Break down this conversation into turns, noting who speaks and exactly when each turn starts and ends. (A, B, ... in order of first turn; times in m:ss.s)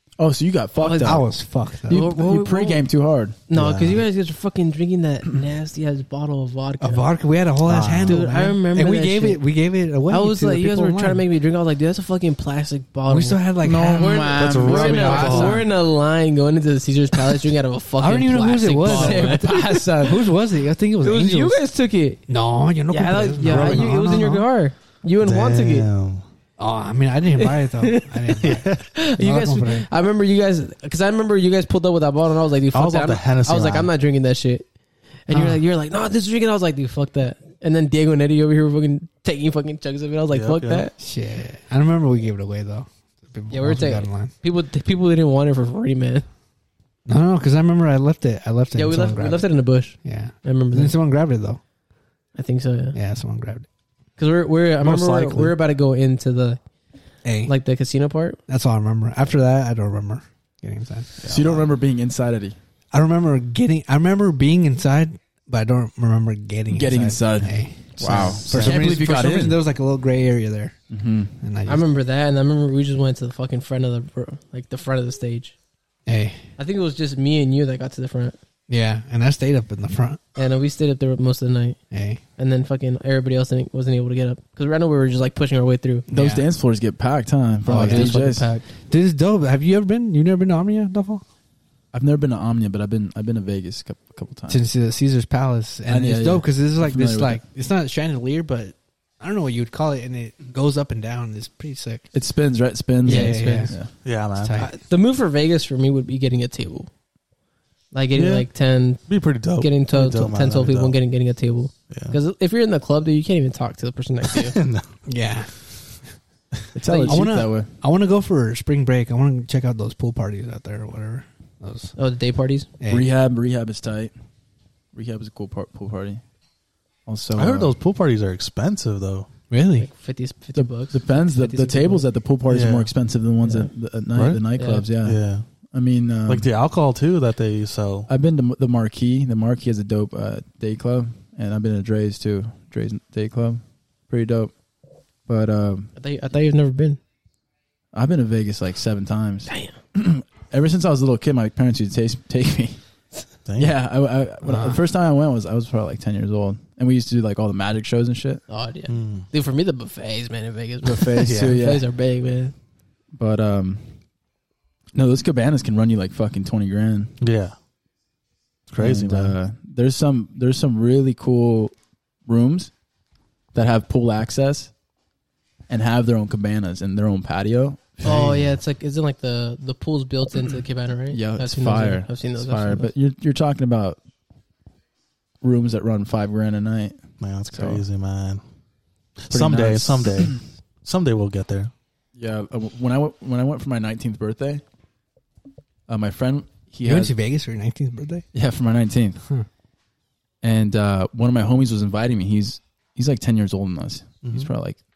0:00.2-0:01.2 A
0:00.8-0:01.2 B
0:01.0-0:02.0 C
0:01.9-0:02.8 B
0:01.9-0:03.4 A
0:03.5-0:07.1 B
0:03.5-0:04.0 D
0:06.8-0:11.2 C
0:07.6-0:08.2 D
0:08.0-0:09.4 B
0:10.1-0:19.9 B
0:13.1-0:14.3 C
0:13.6-0:15.6 A
0:14.3-0:15.7 D
0:18.0-0:21.6 C
0:18.8-0:20.2 A
0:21.0-0:22.2 B
0:22.3-0:24.5 C
0:22.9-0:25.9 B
0:23.4-0:23.9 D
0:25.2-0:26.2 D
0:26.6-0:29.9 C
0:27.4-0:28.4 B
0:28.4-0:28.8 D
0:28.9-0:34.7 B
0:32.7-0:33.9 D
0:35.2-0:40.9 B
0:35.3-0:35.6 C
0:40.3-0:40.9 D
0:41.0-0:44.3 C
0:43.5-0:46.2 B
0:47.0-0:51.6 C
0:48.7-0:50.9 B
0:52.3-0:53.0 B
0:52.9-0:53.6 C
0:54.2-0:56.6 B
0:54.8-0:55.6 D
0:57.2-0:57.5 C
0:57.4-0:58.4 B
0:58.5-1:01.2 C
1:01.2-1:01.6 D
1:01.2-1:02.6 A
1:02.9-1:10.8 C
1:06.7-1:09.6 A
1:08.0-1:08.9 D
1:10.9-1:11.3 A
1:11.4-1:11.8 C
1:11.7-1:15.6 B
1:16.0-1:16.4 C
1:16.6-1:18.4 B
1:18.7-1:20.2 C
1:20.4-1:21.8 B
1:21.9-1:22.2 C
1:22.4-1:26.1 B
1:26.1-1:28.5 A
1:26.1-1:26.4 C
1:27.6-1:28.6 B
1:27.7-1:28.2 C
1:28.9-1:31.2 C
1:31.9-1:34.6 A
1:34.5-1:42.1 C
1:35.9-1:37.4 A
1:42.1-1:43.9 A
1:43.0-1:43.7 C
1:43.0-1:43.7 B
1:44.0-1:44.6 D
1:44.3-1:44.7 C
1:44.6-1:46.9 B
1:47.9-1:54.5 B
1:48.1-1:48.5 D
1:49.0-1:51.0 D
1:51.9-1:52.2 D
1:54.3-1:54.8 D
1:55.0-1:56.0 C
1:56.7-1:57.7 A
1:56.8-1:57.2 B
1:57.0-2:01.9 C
2:02.0-2:02.7 B
2:02.8-2:03.1 C
2:02.9-2:04.1 A
2:04.9-2:06.2 A
2:07.1-2:07.7 A
2:07.3-2:09.3 D
2:09.5-2:09.9 C
2:09.8-2:12.0 B
2:10.6-2:15.2 A
2:12.5-2:12.9 D
2:13.4-2:13.7 B
2:14.1-2:14.4 D
2:14.6-2:14.8 B
2:15.0-2:15.4 D
2:15.7-2:16.5 A
2:16.2-2:18.1 D
2:18.1-2:24.5 A
2:25.3-2:25.9 A
2:26.0-2:27.0 B
2:27.9-2:32.8 A
2:29.5-2:29.7 B
2:33.4-2:33.7 D
2:33.6-2:38.4 A
2:34.4-2:34.8 C
2:38.5-2:42.5 B
2:38.9-2:39.2 D
2:40.8-2:41.8 A
2:41.2-2:41.6 D
2:43.1-2:43.8 A
2:44.9-2:47.1 A
2:47.2-2:47.5 D
2:48.7-2:49.3 D
2:48.8-2:51.7 A
2:52.2-2:52.7 A
2:53.5-2:54.7 A
2:55.7-2:58.4 A
2:58.0-2:58.4 D
2:58.0-3:02.9 B
3:01.1-3:04.0 A
3:05.4-3:07.8 A
3:07.2-3:08.4 D
3:09.2-3:11.7 D
3:09.3-3:10.4 A
3:12.2-3:14.6 A
3:15.9-3:17.1 A
3:16.8-3:18.2 C
3:18.3-3:19.2 A
3:20.4-3:24.8 A